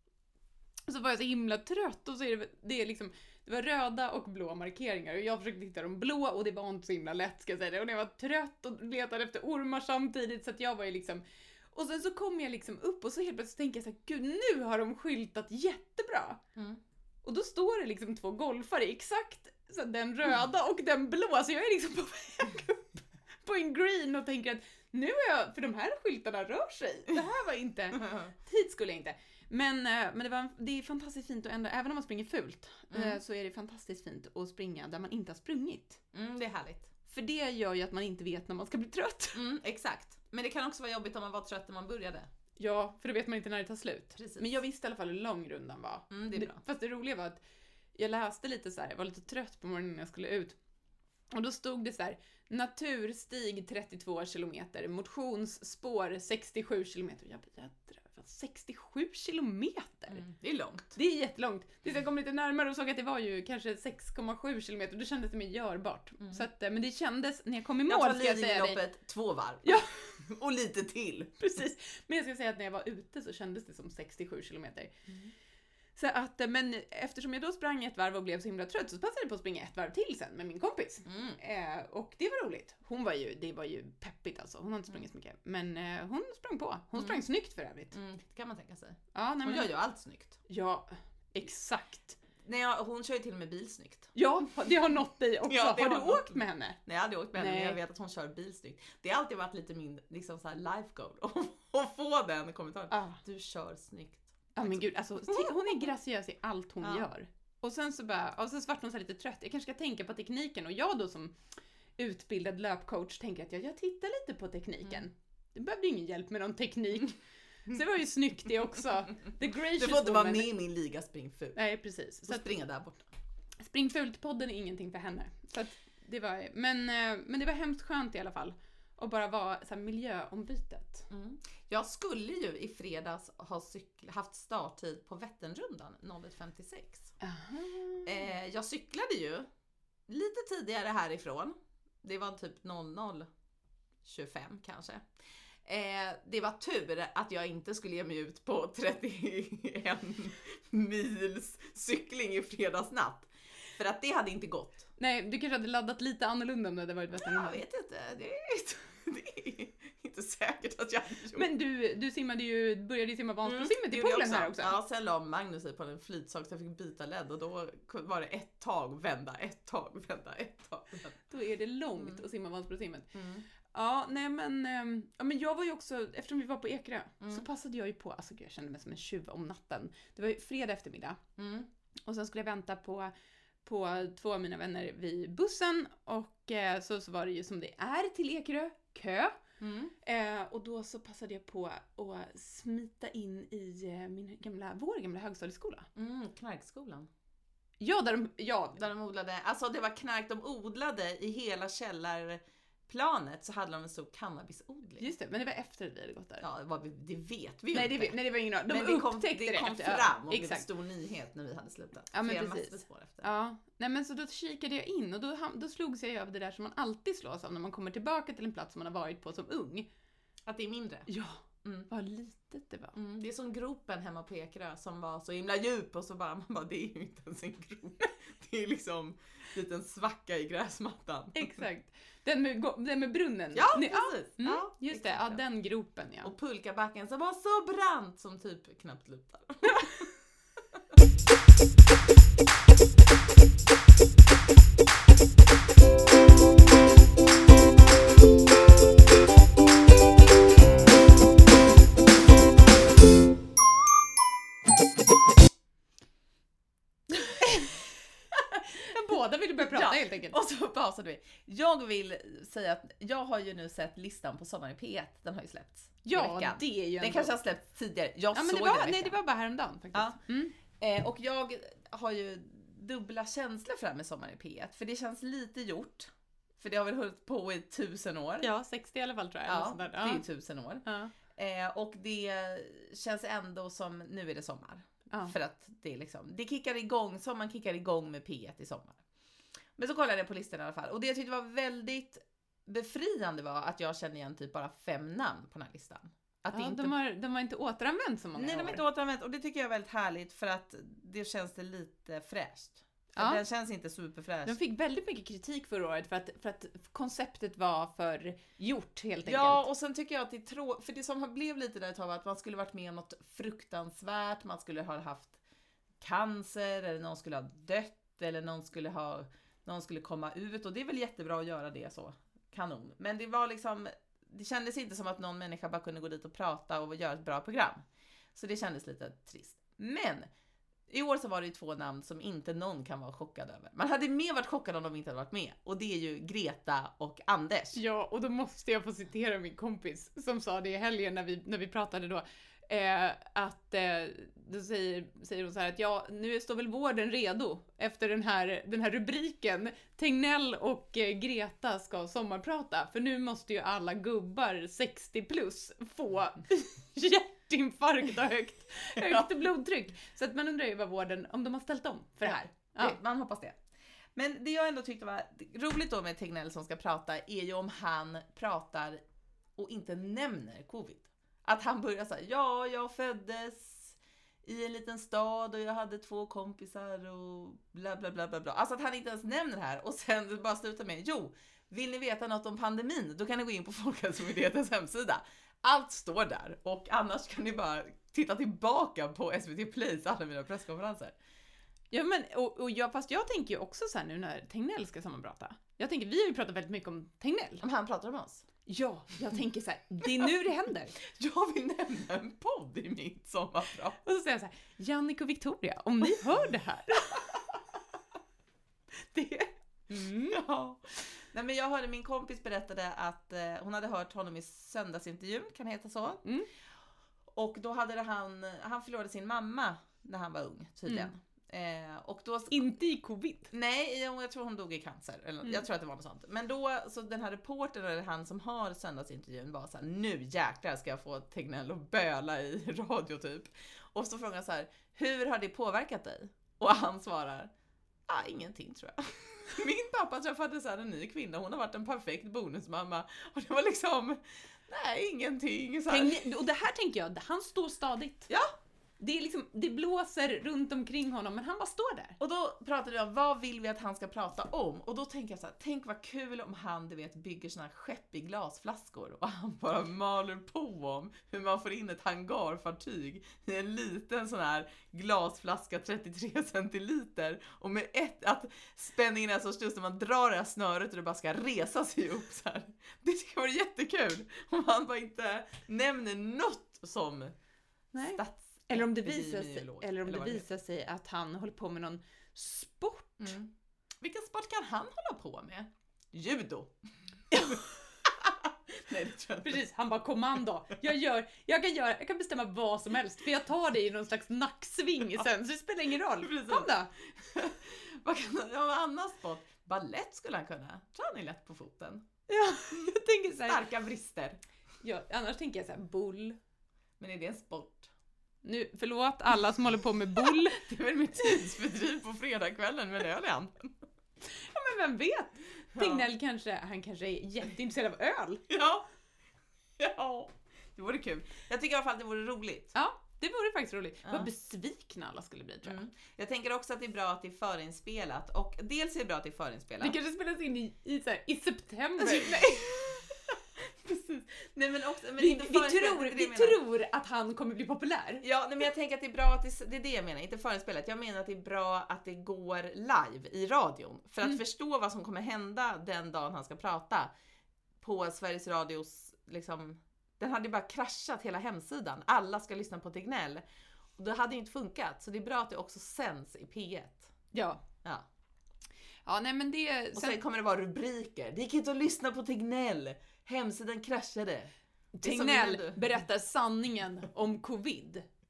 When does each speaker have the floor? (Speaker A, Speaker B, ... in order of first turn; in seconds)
Speaker A: 0.9-16.4, 17.2-36.0, 37.1-39.4, 42.6-47.4, 48.0-50.5, 51.3-60.2, 60.9-68.8, 69.6-69.9, 71.4-74.9, 76.0-88.0, 89.1-89.7, 90.5-92.2, 94.1-96.8, 97.3-97.8, 102.9-103.2, 104.5-111.4, 112.0-120.5, 121.5-122.6, 123.6-131.1, 137.2-138.2, 155.0-157.6, 161.3-164.8, 171.3-173.1, 173.7-181.2, 182.1-183.1, 183.6-189.3, 190.0-195.9, 197.8-198.8, 205.0-206.4, 207.7-210.7, 212.1-219.9, 221.1-222.9, 231.3-236.3, 239.7-239.9, 257.1-257.8, 258.5-260.4, 266.0-267.3, 268.3-270.5, 278.4-280.2, 280.8-281.1, 296.5-298.8, 303.1-303.4, 304.4-309.6, 337.7-363.0, 391.9-397.6, 398.6-401.0, 404.0-407.4, 409.0-410.4, 422.5-423.5, 445.9-448.3, 449.0-452.2, 477.9-483.3, 487.3-487.6, 489.4-496.9, 502.3-503.6, 504.8-506.4, 508.4-510.6, 514.2-518.5, 522.7-525.8, 529.8-532.8, 535.2-538.2, 557.3-557.6, 559.0-560.2, 564.9-568.1
Speaker B: 28.0-28.3, 32.9-33.2, 36.1-36.9, 39.3-42.3, 44.1-44.5, 46.1-46.6, 60.1-60.9, 67.8-71.4, 81.0-81.4, 87.0-87.2, 87.9-90.4, 92.4-94.1, 95.5-105.8, 119.7-121.6, 122.3-123.0, 131.1-137.1, 138.0-139.5, 140.1-143.3, 144.0-145.1, 145.6-154.9, 157.2-161.5, 163.4-171.2, 173.1-173.4, 181.4-181.7, 189.6-189.9, 195.9-197.1, 198.8-205.1, 206.4-213.3, 220.5-221.1, 222.9-231.6, 233.5-235.4, 236.2-240.1, 259.6-269.2, 270.8-278.5, 279.4-289.0, 289.8-296.9, 298.4-304.6, 309.2-315.4, 316.0-327.8, 328.3-330.3, 330.9-337.8, 358.9-359.3, 362.2-363.6, 364.1-369.0, 369.6-391.1, 397.6-398.4, 401.0-404.0, 410.3-416.2, 417.3-422.7, 423.5-437.5, 438.1-446.2, 452.2-477.3, 478.0-480.4, 483.2-483.5, 484.0-486.7, 487.3-489.6, 496.1-502.1, 502.7-504.4, 507.0-507.9, 510.1-513.7, 515.7-516.1, 518.5-518.9, 519.8-522.7, 525.6-530.0, 532.0-536.6, 538.2-547.1, 547.8-553.4, 554.0-557.1, 559.9-566.0